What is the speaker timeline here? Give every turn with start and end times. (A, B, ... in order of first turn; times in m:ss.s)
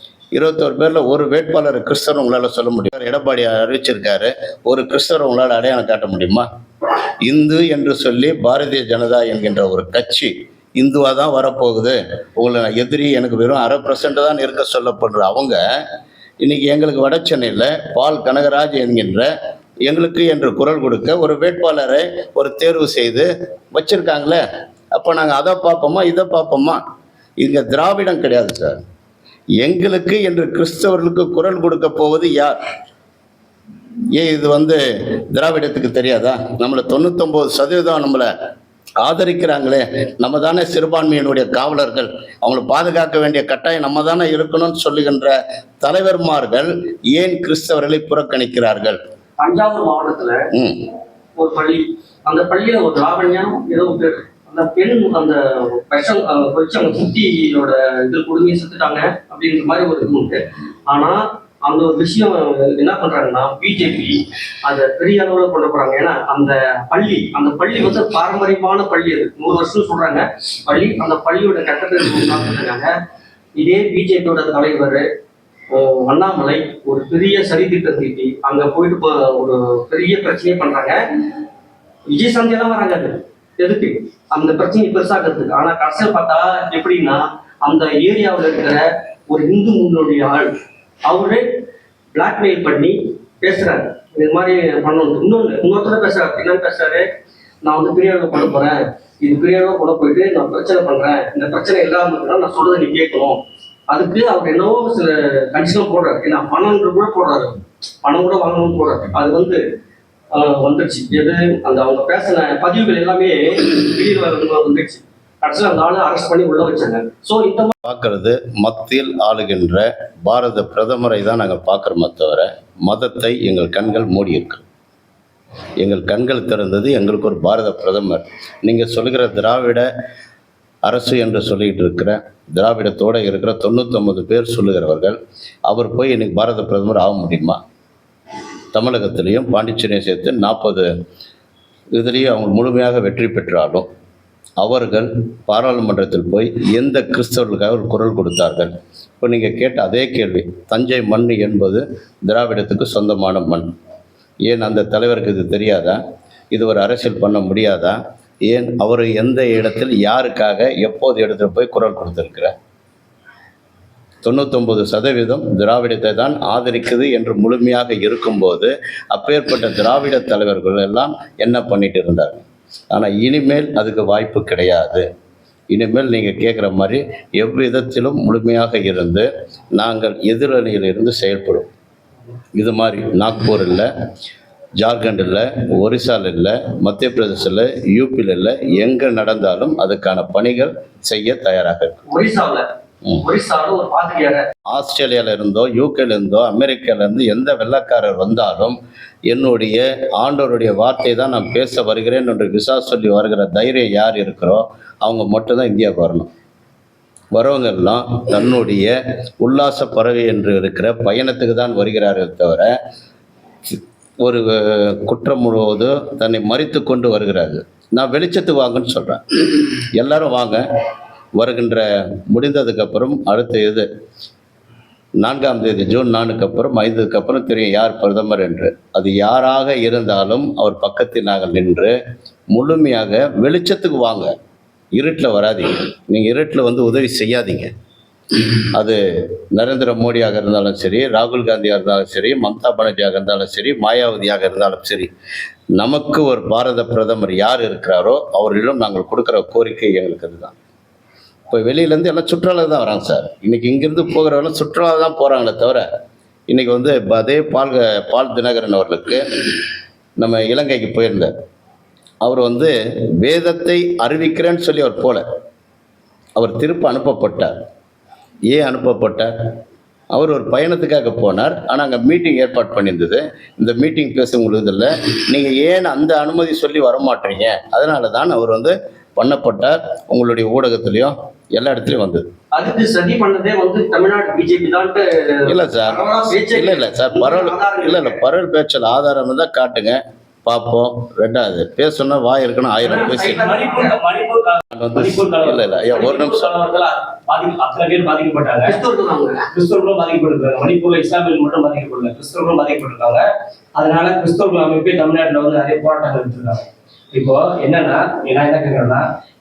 0:00.3-0:06.4 A
0:07.2-0:15.6 A
0:16.4-0:19.3 A
0:19.8-0:24.4 A
0:24.9-0:26.8 A
0:27.4-0:28.8 A
0:29.6-0:32.6 A
0:34.1-0:38.3 A
0:39.0-0:49.0 A
0:49.4-0:50.5 B
0:50.5-0:50.9 A
0:51.4-1:12.9 B
1:13.6-1:15.0 B
1:15.7-1:21.0 B
1:22.1-1:31.4 B
1:32.1-1:37.0 B
1:37.6-1:49.6 B
1:50.3-1:57.7 B
1:57.8-2:04.6 A
2:05.8-2:09.9 A
2:10.8-2:17.6 A
2:18.7-2:20.9 A
2:21.9-2:23.9 A
2:24.6-2:33.7 A
2:34.4-2:36.0 A
2:36.5-2:42.5 A
2:44.2-2:55.0 A
2:55.7-3:01.7 A
3:02.6-3:03.9 A
3:04.8-3:12.0 A
3:12.1-3:12.6 B
3:13.2-3:14.5 B
3:14.7-3:18.8 A
3:19.3-3:26.3 A
3:27.3-3:32.8 A
3:33.7-3:40.6 A
3:41.4-3:43.9 A
3:45.2-3:52.0 A
3:52.5-3:54.3 A
3:54.9-3:57.7 A
3:58.7-3:59.0 A
3:59.5-4:05.1 A
4:05.8-4:10.5 A
4:11.5-4:15.9 A
4:16.5-4:19.4 A
4:20.2-4:21.3 A
4:22.2-4:25.2 A
4:26.4-4:27.6 A
4:28.5-4:29.3 A
4:30.1-4:42.3 A
4:42.5-4:48.2 B
4:45.4-4:53.4 A
4:52.8-4:53.9 B
4:52.9-4:58.8 C
4:54.7-4:56.5 A
4:58.6-4:59.4 B
4:59.5-5:09.0 C